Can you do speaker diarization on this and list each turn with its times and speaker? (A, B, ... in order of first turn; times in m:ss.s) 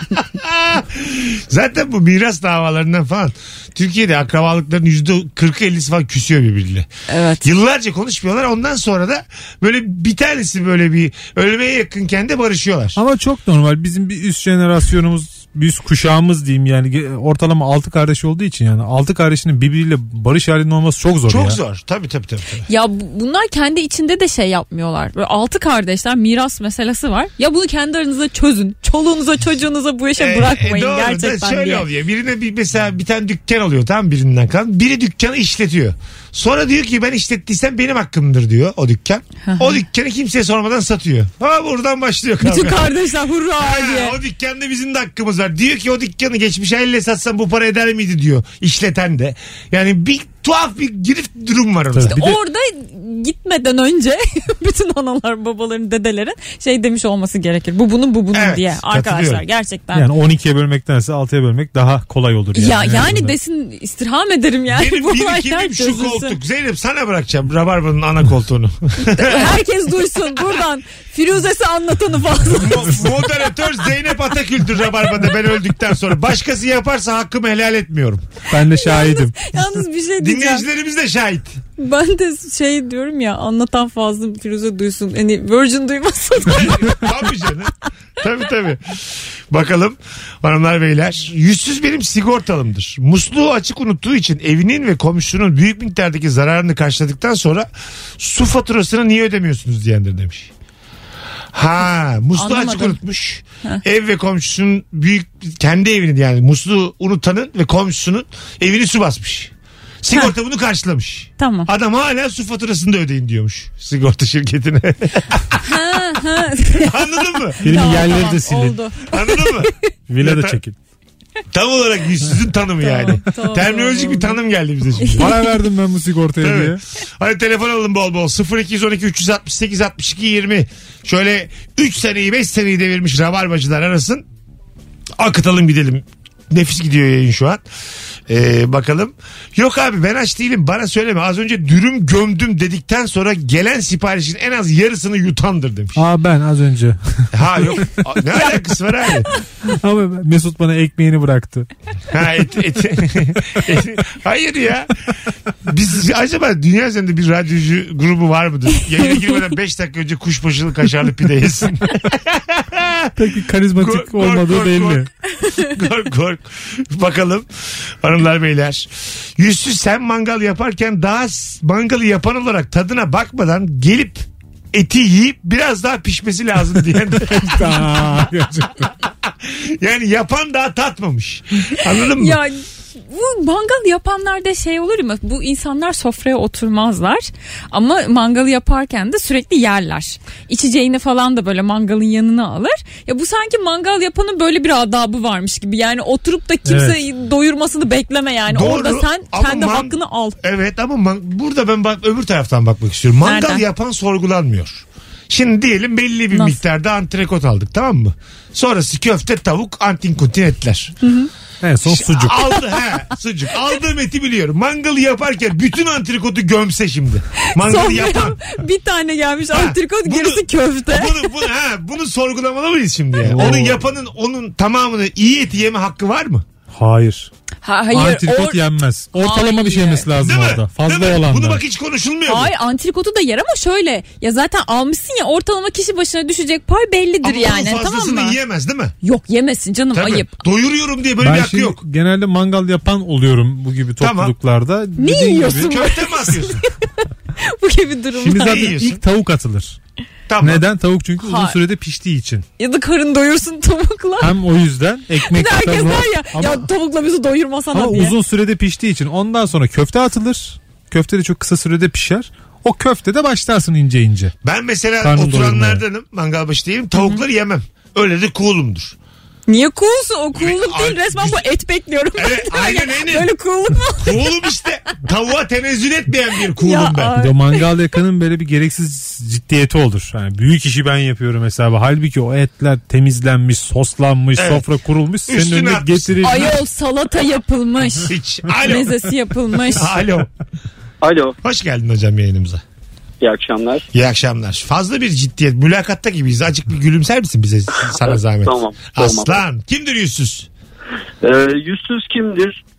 0:00.3-0:06.9 A
0:07.1-0:07.5 B
0:07.4-0:13.0 A
0:13.0-0:21.6 C
0:21.3-0:22.7 A
0:22.7-0:31.8 B
0:30.2-0:42.9 A
0:39.4-0:39.8 B
0:42.4-0:44.2 B
0:43.6-0:52.2 A
0:51.9-0:52.4 C
0:52.1-1:00.1 B
0:58.3-0:59.4 A
0:59.9-1:03.3 C
1:02.5-1:06.3 B
1:04.7-1:09.6 A
1:09.0-1:13.1 B
1:12.6-1:18.2 A
1:18.5-1:19.6 C
1:18.7-1:20.6 B
1:20.2-1:21.6 A
1:21.8-1:27.0 B
1:26.5-1:29.0 A
1:29.5-1:37.7 A
1:38.2-1:40.5 A
1:41.5-1:55.6 A
1:42.4-1:43.0 B
1:51.4-1:51.7 B
1:55.6-1:56.9 B
1:56.8-1:58.0 A
1:57.6-1:59.7 B
1:57.6-1:58.8 C
1:59.1-2:00.6 A
2:00.1-2:00.8 C
2:01.5-2:05.3 A
2:02.8-2:04.4 B
2:05.0-2:05.5 B
2:05.1-2:06.8 C
2:06.4-2:14.2 A
2:15.2-2:17.6 A
2:18.3-2:26.0 A
2:25.9-2:27.5 C
2:27.3-2:29.3 A
2:29.6-2:31.7 C
2:32.1-2:34.9 A
2:35.6-2:43.1 A
2:43.2-2:45.1 C
2:43.8-2:45.0 A
2:45.6-2:47.5 A
2:48.0-2:58.3 A
2:57.3-2:58.9 C
2:59.4-3:02.4 A
3:02.2-3:20.4 B
3:16.6-3:17.0 C
3:18.5-3:30.9 A
3:23.2-3:23.6 B
3:26.3-3:26.6 B
3:31.0-3:31.3 B
3:31.6-3:32.5 C
3:31.9-3:38.4 A
3:37.4-3:41.3 B
3:39.5-3:46.4 A
3:43.2-3:43.8 C
3:46.7-3:47.3 C
3:47.6-3:48.6 B
3:47.9-3:51.6 C
3:49.1-3:50.1 B
3:50.2-3:52.5 A
3:52.3-3:58.4 B
3:57.2-3:58.9 A
3:59.0-4:00.4 B
3:59.9-4:01.8 A
4:01.2-4:05.8 C
4:04.0-4:04.3 A
4:05.0-4:06.6 B
4:05.6-4:06.6 A
4:07.4-4:08.7 B
4:08.2-4:09.8 C
4:08.3-4:09.0 A
4:10.3-4:10.6 A
4:10.4-4:12.4 C
4:11.2-4:11.6 B
4:12.6-4:14.4 B
4:14.2-4:16.7 C
4:15.2-4:18.1 B
4:17.7-4:24.3 C
4:24.4-4:29.0 A
4:25.0-4:25.8 C
4:27.0-4:27.2 B
4:29.5-4:34.2 B
4:30.4-4:31.5 A
4:32.2-4:33.3 A
4:34.0-4:37.1 A
4:36.6-4:37.6 B
4:37.2-4:46.6 C
4:44.4-4:44.6 A
4:45.2-4:46.2 A
4:46.2-4:50.0 B
4:48.1-4:49.0 A
4:49.7-4:50.3 A
4:51.0-4:51.4 D
4:51.4-4:52.6 A
4:53.2-4:53.8 D
4:53.9-5:00.5 A
4:57.9-4:59.4 D
5:01.2-5:02.6 D